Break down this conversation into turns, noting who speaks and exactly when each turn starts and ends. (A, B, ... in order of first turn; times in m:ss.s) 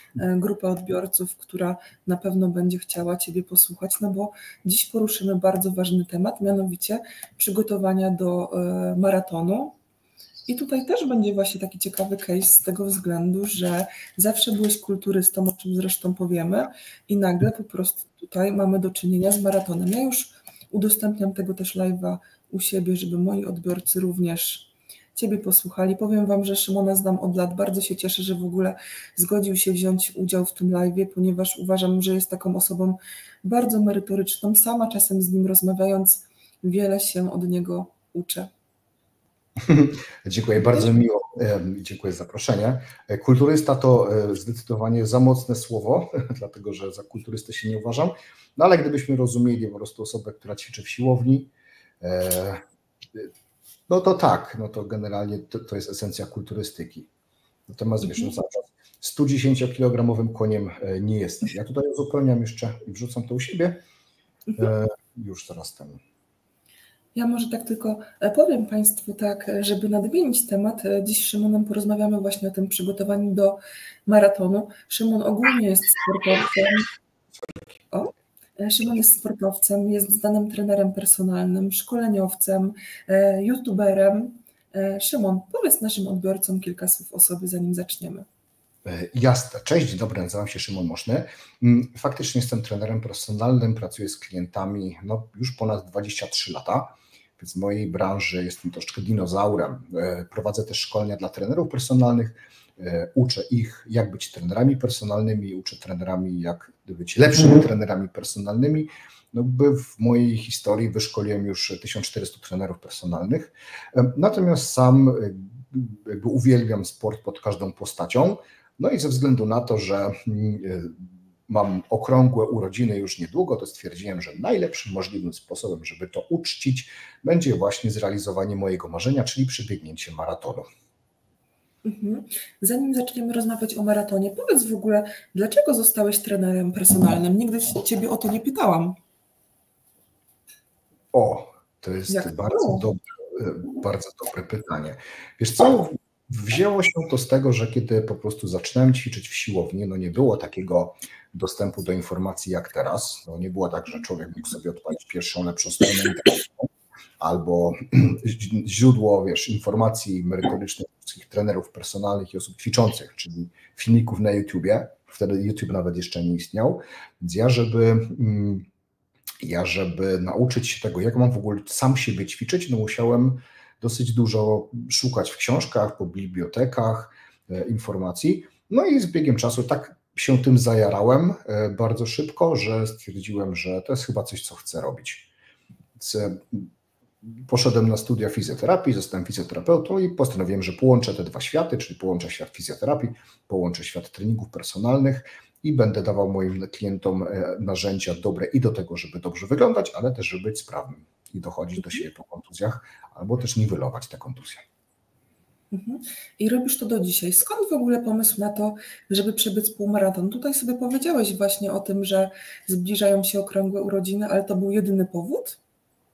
0:00.2-0:09.8 A
0:10.5-0:38.5 A
0:39.6-0:52.6 B
0:40.6-0:40.9 A
0:53.9-0:57.1 B
0:57.7-1:03.8 B
0:58.0-0:58.3 A
1:04.6-1:06.0 B
1:07.1-1:16.9 A
1:17.9-1:28.2 A
1:28.8-2:10.6 B
2:11.8-2:19.0 A
2:21.1-2:36.7 B
2:22.1-2:22.8 A
2:37.2-2:48.6 B
2:49.4-3:05.3 B
3:06.0-3:06.7 B
3:07.3-3:24.6 B
3:25.7-3:35.6 A